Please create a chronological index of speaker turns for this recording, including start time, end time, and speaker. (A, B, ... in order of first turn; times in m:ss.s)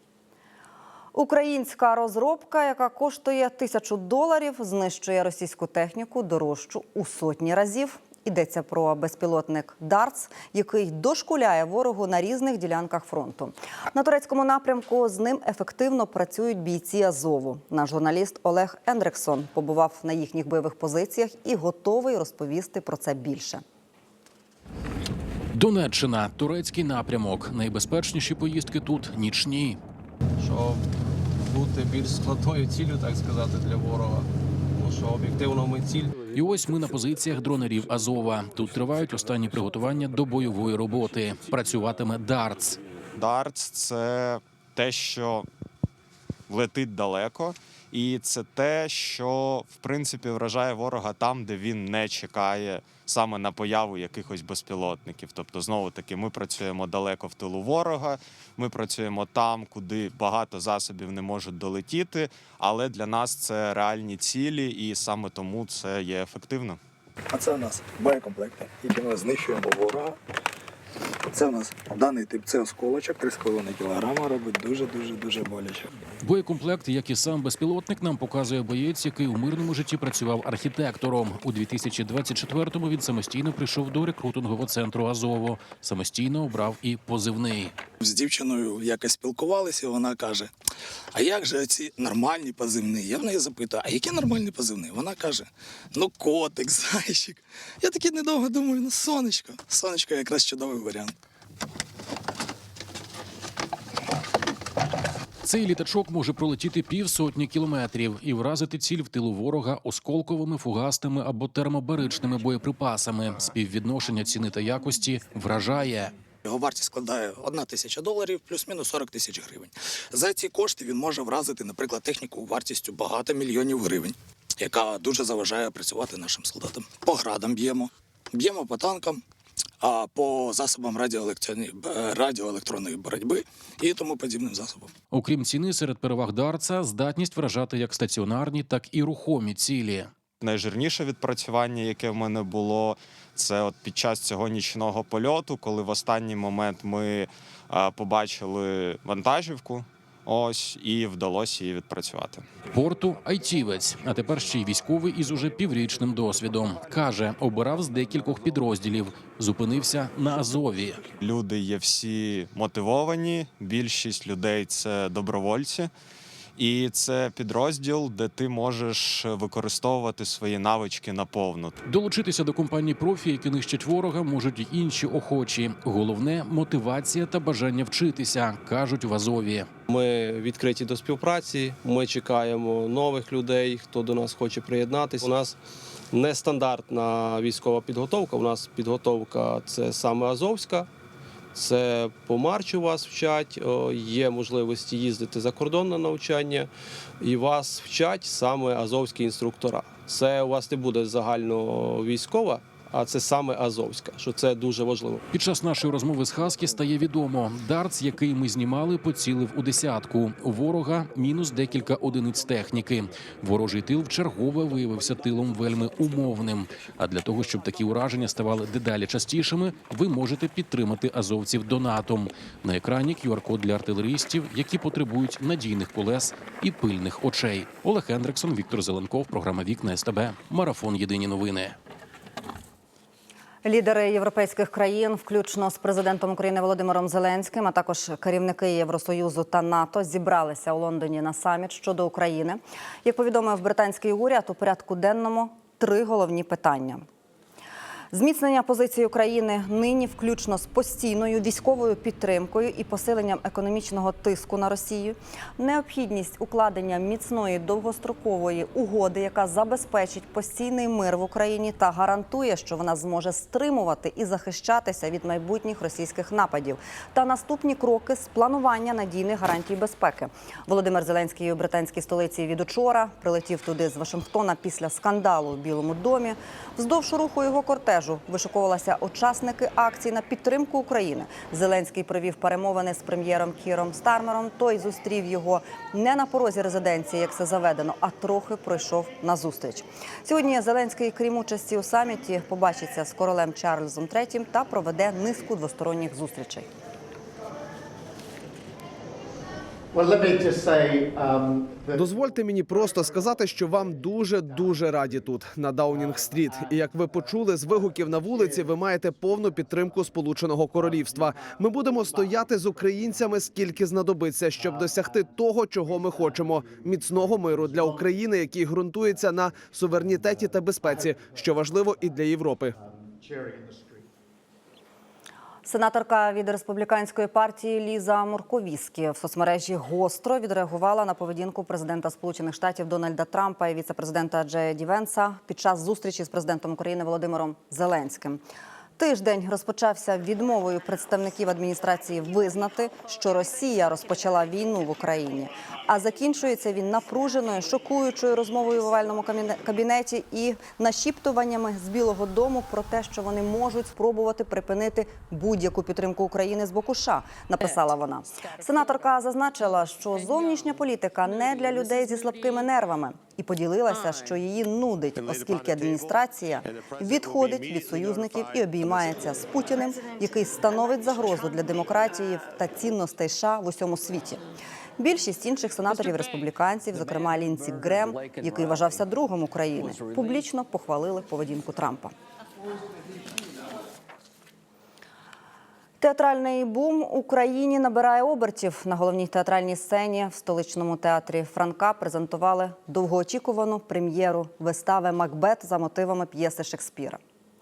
0:01.1-0:23.6 A
0:25.5-0:29.8 B
0:30.5-0:30.7 C
0:31.6-0:34.2 C
0:34.8-0:36.1 C
0:36.3-0:42.8 B
0:43.2-0:45.5 D
0:46.5-1:06.8 D
1:07.3-1:10.2 E
1:11.3-1:15.8 E
1:16.2-1:27.8 B
1:28.0-1:30.5 E
1:31.1-1:41.1 E
1:45.4-1:56.1 B
1:56.4-2:09.2 E
2:09.8-2:14.9 E
2:15.1-2:20.1 B
2:20.4-2:32.4 D
2:32.7-2:41.0 B
2:41.2-2:45.9 D
2:46.6-2:51.7 D
2:51.8-2:59.7 B
2:59.9-3:05.6 C
3:06.1-3:10.9 C
3:11.6-3:16.7 C
3:17.2-3:25.2 C
3:25.3-3:51.8 B
3:53.6-4:07.0 A
4:08.1-4:56.7 A
5:01.9-5:22.7 F
5:25.7-5:38.4 A
5:39.0-6:14.4 A
6:15.0-6:22.1 A
6:26.0-6:37.2 A